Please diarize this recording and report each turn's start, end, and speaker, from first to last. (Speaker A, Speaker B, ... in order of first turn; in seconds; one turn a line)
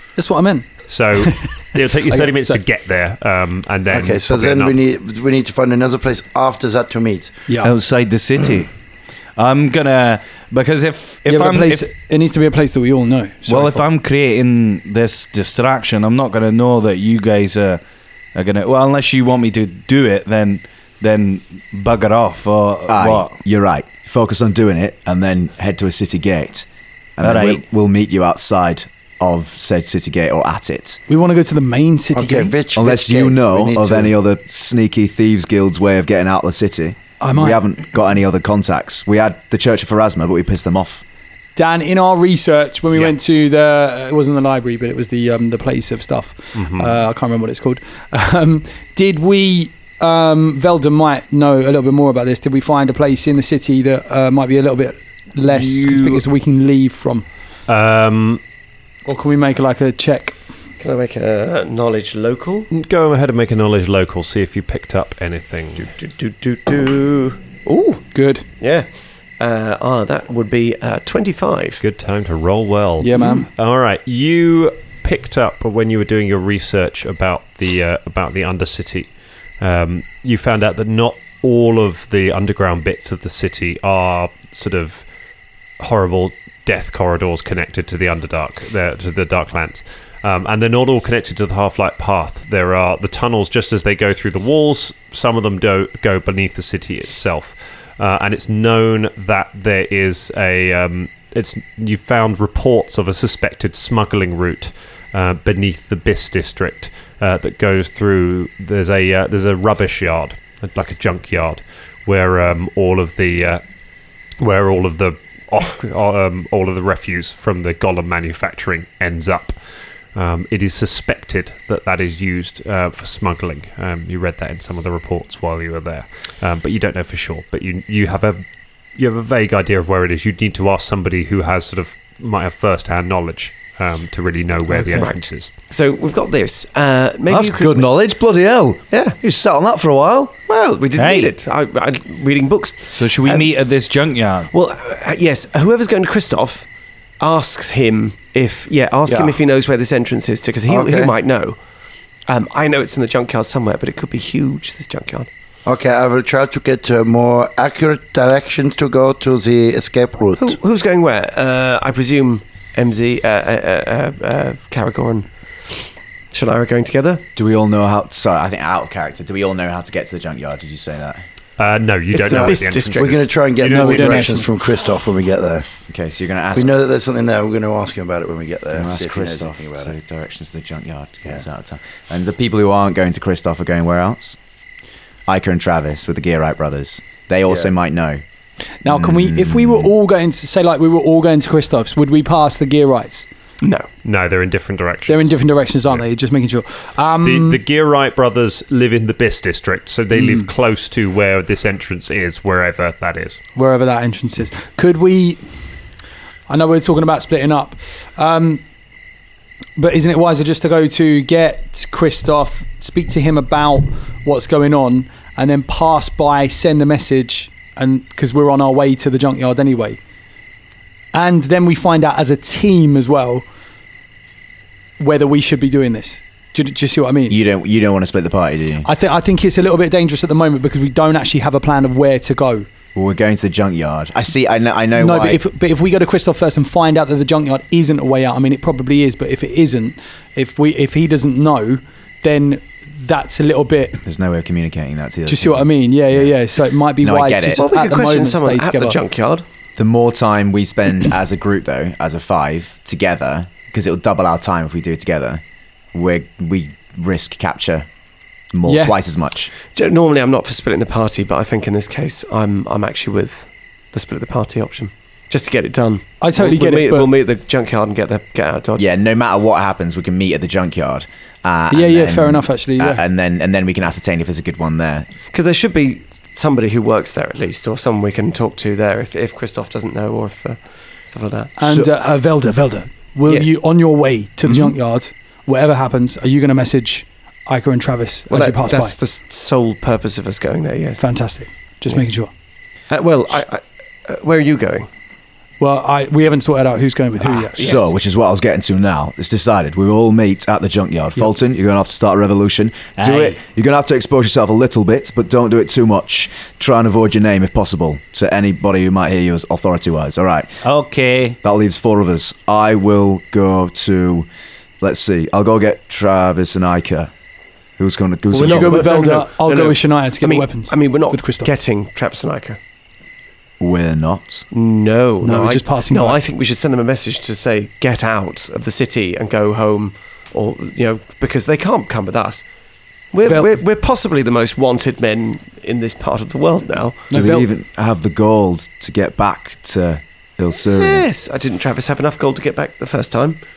Speaker A: 0.2-1.4
Speaker B: 0.9-4.8
Speaker A: 2.0-2.6
Speaker C: 3.9-7.4
Speaker A: 7.5-7.7
Speaker D: 7.6-8.7
Speaker D: 9.3-11.9
Speaker A: 11.2-13.8
Speaker D: 13.5-17.8
Speaker D: 18.3-23.4
Speaker E: 22.9-31.0
Speaker D: 27.2-27.6
Speaker A: 31.1-32.5
Speaker C: 32.1-34.1
Speaker E: 32.7-41.0
Speaker A: 37.2-37.6
Speaker A: 41.5-57.2
Speaker B: 46.5-47.0
Speaker D: 55.6-56.2
Speaker B: 57.7-58.4
Speaker A: 59.0-60.4
Speaker F: 60.8-62.7
Speaker B: 62.7-65.9
Speaker F: 65.8-71.8
Speaker A: 68.1-68.5
Speaker B: 71.8-85.0
Speaker A: 73.0-73.5
Speaker B: 85.8-113.6
Speaker B: 114.4-119.6
Speaker B: 120.1-135.5
Speaker F: 134.9-138.0
Speaker E: 137.3-140.3
Speaker F: 138.9-139.2
Speaker F: 140.5-143.6
Speaker D: 140.9-141.3
Speaker D: 142.9-144.5
Speaker F: 144.5-146.7
Speaker F: 147.2-151.6
Speaker C: 149.1-149.4
Speaker C: 150.7-151.1
Speaker F: 152.3-155.3
Speaker C: 155.6-160.6
Speaker F: 160.4-167.2
Speaker E: 167.3-171.2
Speaker B: 171.6-174.4
Speaker F: 172.1-173.3
Speaker C: 172.3-175.7
Speaker A: 173.6-174.5
Speaker E: 175.9-176.8
Speaker C: 176.5-179.9
Speaker E: 178.7-184.4
Speaker E: 185.3-188.2
Speaker A: 188.8-193.3
Speaker E: 188.8-189.9
Speaker F: 193.6-193.9
Speaker B: 194.0-196.0
Speaker A: 195.1-197.6
Speaker B: 197.2-203.4
Speaker A: 200.1-200.5
Speaker A: 203.6-205.4
Speaker A: 206.5-208.6
Speaker A: 209.8-220.0
Speaker A: 221.1-223.4
Speaker A: 225.0-227.4
Speaker E: 227.3-228.9
Speaker A: 228.8-232.7
Speaker E: 232.9-235.4
Speaker A: 234.9-244.0
Speaker E: 244.0-246.4
Speaker A: 245.2-249.0
Speaker E: 247.0-247.6
Speaker F: 247.6-249.4
Speaker E: 249.8-255.4
Speaker E: 255.9-257.9
Speaker E: 258.5-259.5
Speaker A: 258.6-258.9
Speaker F: 259.6-268.9
Speaker A: 266.2-267.1
Speaker E: 268.8-275.1
Speaker A: 271.7-273.0
Speaker F: 275.3-281.9
Speaker A: 281.6-288.9
Speaker F: 283.2-283.6
Speaker F: 284.4-284.7
Speaker F: 288.3-291.3
Speaker A: 291.0-292.3
Speaker F: 291.9-292.1
Speaker F: 292.9-294.9
Speaker A: 295.6-297.6
Speaker F: 297.2-297.9
Speaker E: 297.6-310.6
Speaker D: 303.0-303.4
Speaker D: 310.6-311.4
Speaker E: 311.4-314.3
Speaker E: 314.8-317.1
Speaker E: 317.8-319.0
Speaker A: 318.3-321.5
Speaker F: 318.3-322.6
Speaker E: 323.6-324.4
Speaker F: 324.5-337.1
Speaker A: 325.2-326.2
Speaker A: 333.2-333.6
Speaker A: 337.1-337.5
Speaker E: 337.1-341.0
Speaker F: 340.7-343.4